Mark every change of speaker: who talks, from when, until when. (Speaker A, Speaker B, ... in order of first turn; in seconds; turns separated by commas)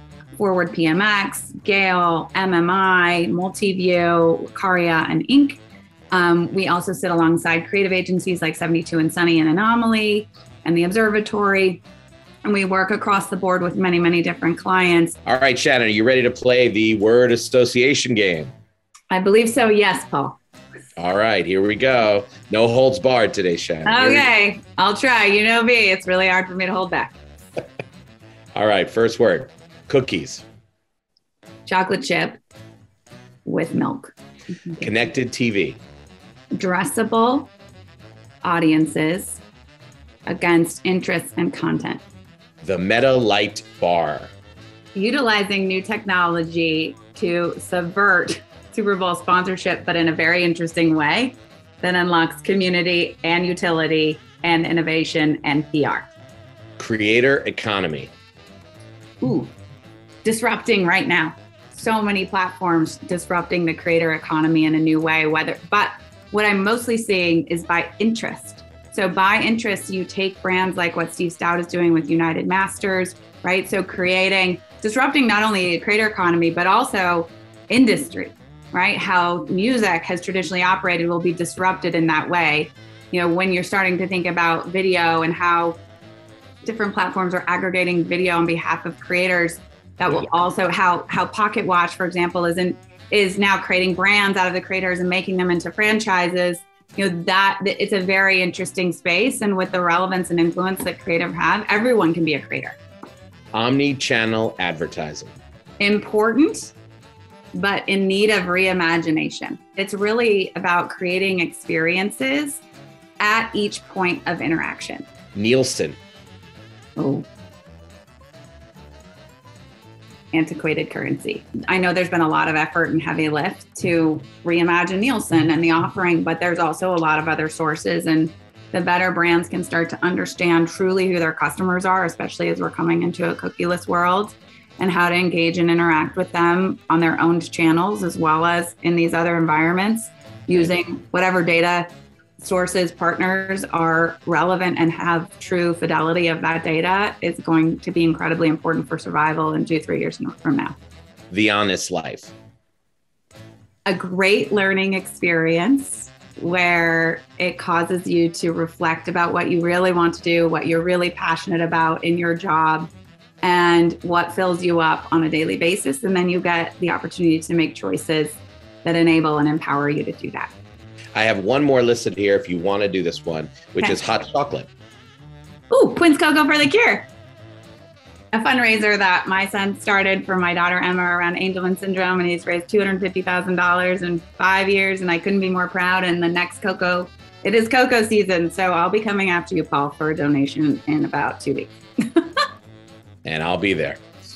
Speaker A: 0.4-5.6, Speaker A: 6.1-11.8, Speaker A: 12.4-15.2, Speaker B: 15.2-18.5, Speaker A: 19.1-20.4, Speaker B: 21.0-24.3, Speaker A: 23.8-27.2, Speaker B: 28.5-30.4, Speaker A: 31.6-32.4, Speaker A: 33.4-34.1, Speaker B: 34.8-35.8, Speaker A: 36.5-37.5, Speaker A: 38.4-39.4, Speaker A: 40.3-42.0, Speaker B: 42.6-44.3, Speaker A: 44.9-56.1, Speaker B: 56.8-58.1, Speaker A: 59.2-59.5, Speaker A: 60.2-85.8, Speaker A: 86.6-102.8, Speaker B: 103.5-105.4, Speaker A: 105.8-106.7, Speaker A: 107.5-112.6, Speaker A: 113.2-115.0, Speaker B: 115.3-116.0, Speaker A: 117.0-117.3, Speaker A: 120.3-150.7, Speaker B: 151.3-152.3, Speaker A: 153.8-162.9, Speaker A: 163.4-170.5, Speaker B: 171.1-174.7, Speaker A: 175.7-177.1, Speaker A: 178.3-192.3, Speaker B: 193.2-194.0